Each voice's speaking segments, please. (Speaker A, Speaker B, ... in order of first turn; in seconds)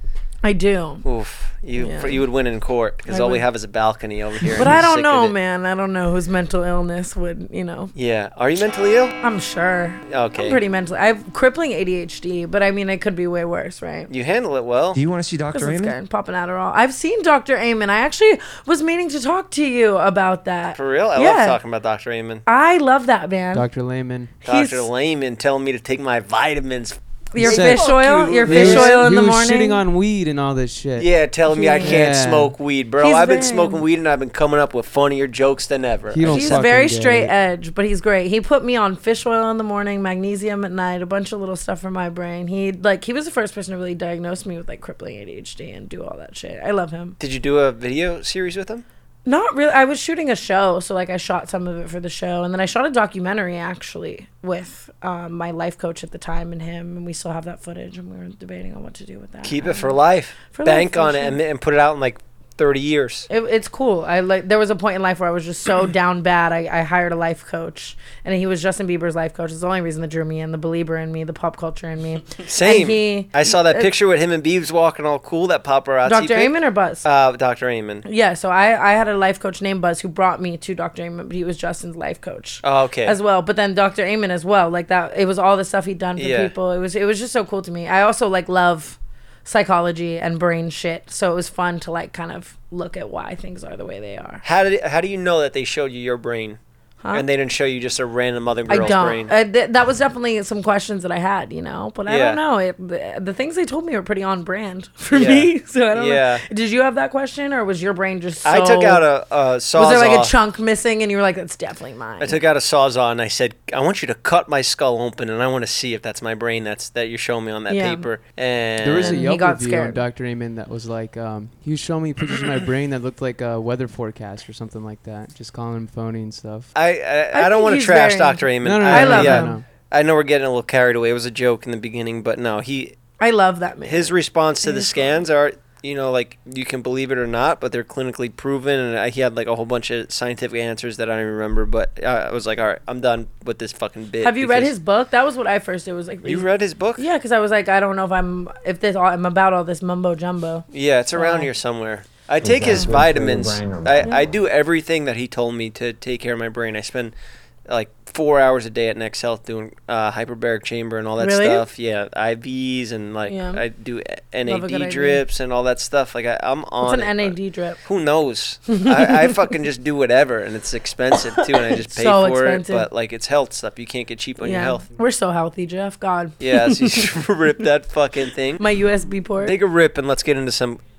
Speaker A: 0.4-1.1, 1.8-2.2, 3.1-3.5, 4.5-7.9, 9.2-14.1, 15.5-21.6, 22.5-23.7, 24.4-24.9, 27.3-29.8, 31.5-32.0, 33.0-33.8, 36.2-47.2, 49.3-60.0, 60.5-61.4, 63.3-73.9, 76.1-77.0, 78.0-94.4, 98.7-109.0, 109.8-112.4, 117.7-118.1, 119.0-120.0, 127.3-129.6, 133.2-135.2, 144.2-151.5, 161.2-161.6, 163.3-163.6, 164.4-165.2, 166.8-167.8, 168.7-169.4, 171.7-172.9, 174.4-177.2, 178.6-179.6
Speaker B: 1.0-5.3, 8.0-9.2, 10.1-10.6, 14.1-15.0, 20.7-22.4, 24.4-29.0, 31.0-36.6, 47.2-48.9, 59.4-63.3, 72.4-78.0, 82.6-83.2, 86.2-86.5, 94.4-96.6, 97.1-99.3, 102.1-102.4, 105.1-106.4, 108.5-110.3, 112.2-119.2, 126.7-133.0, 133.8-144.7, 146.2-147.1, 150.7-157.1, 157.7-174.8, 176.4-178.6, 179.4-180.8
Speaker C: 14.9-15.9, 152.4-154.0
Speaker D: 23.5-24.3, 27.4-27.9, 28.4-31.1, 31.8-32.5, 36.1-37.3, 118.8-126.7, 128.6-129.7